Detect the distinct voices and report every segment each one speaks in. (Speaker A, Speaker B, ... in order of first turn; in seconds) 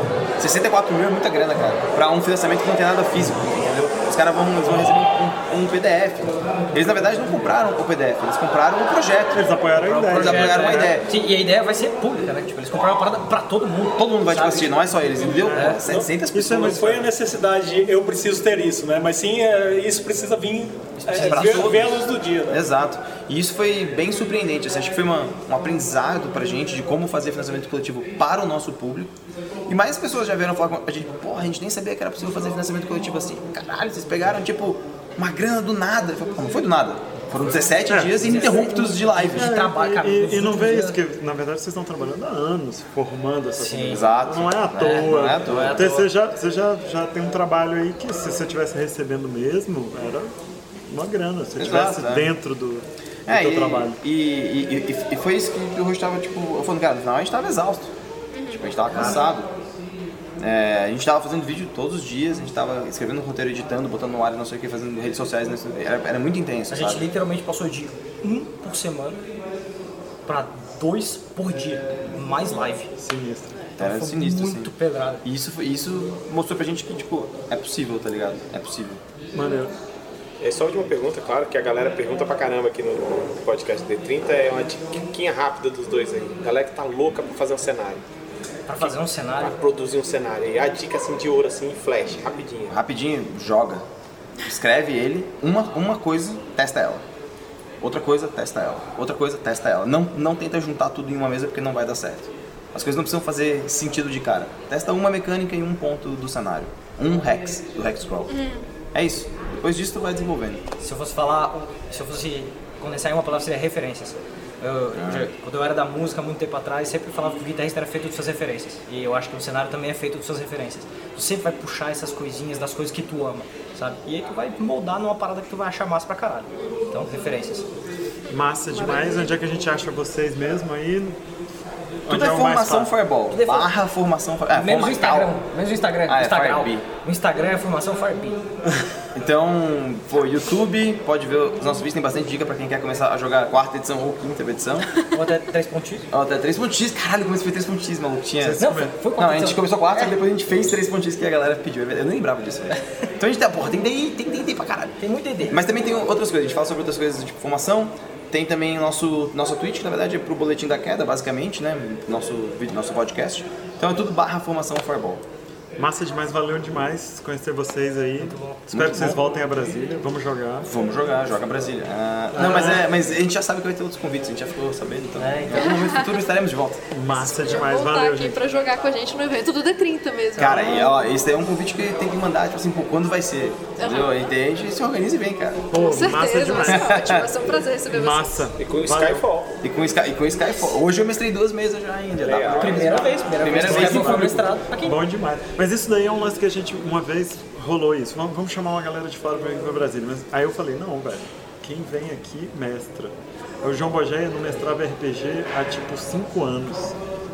Speaker A: 0.4-9.4, 10.0-11.1, 14.0-17.1, 21.1-29.1, 29.7-39.5, 43.8-45.9, 51.6-52.3, 53.3-57.9, 58.5-59.5, 60.4-67.0, 73.8-74.7, 75.2-79.0, 92.7-93.8, 94.4-97.0, 97.8-108.3, 108.9-110.6, 114.9-115.3, 132.1-135.3, 136.1-136.8, 139.1-144.9, 146.1-154.9, 155.4-165.2, 168.7-169.2, 170.7-176.8, 180.4-185.7, 186.6-187.4, 189.6-194.4
Speaker B: 9.3-11.0, 15.4-15.8, 37.8-50.3, 50.9-54.0, 73.0-73.7, 79.3-79.7, 128.3-131.2, 132.0-132.9, 148.4-148.9, 165.8-170.9, 172.3-172.9, 176.9-178.4, 180.4-180.9, 185.7-187.1, 187.9-189.2, 193.4-207.0
Speaker C: 9.9-14.8, 15.5-15.8, 21.2-21.6, 38.1-41.0, 43.6-44.0, 44.8-46.1, 58.9-59.2, 66.7-69.2, 70.2-72.9, 73.8-75.2, 88.7-89.5, 110.8-127.7, 133.3-133.7, 134.5-138.4, 145.1-146.1, 148.6-150.1, 152.7-153.1, 155.0-155.6, 168.2-168.6, 175.2-175.8, 192.6-195.0
Speaker D: 15.8-22.7
Speaker E: 58.3-59.2, 108.3-108.6, 128.3-129.3, 175.5-176.1, 177.1-181.0, 183.8-184.1, 185.7-188.5
Speaker F: 80.4-88.0, 88.8-92.7, 188.6-189.5, 192.2-193.1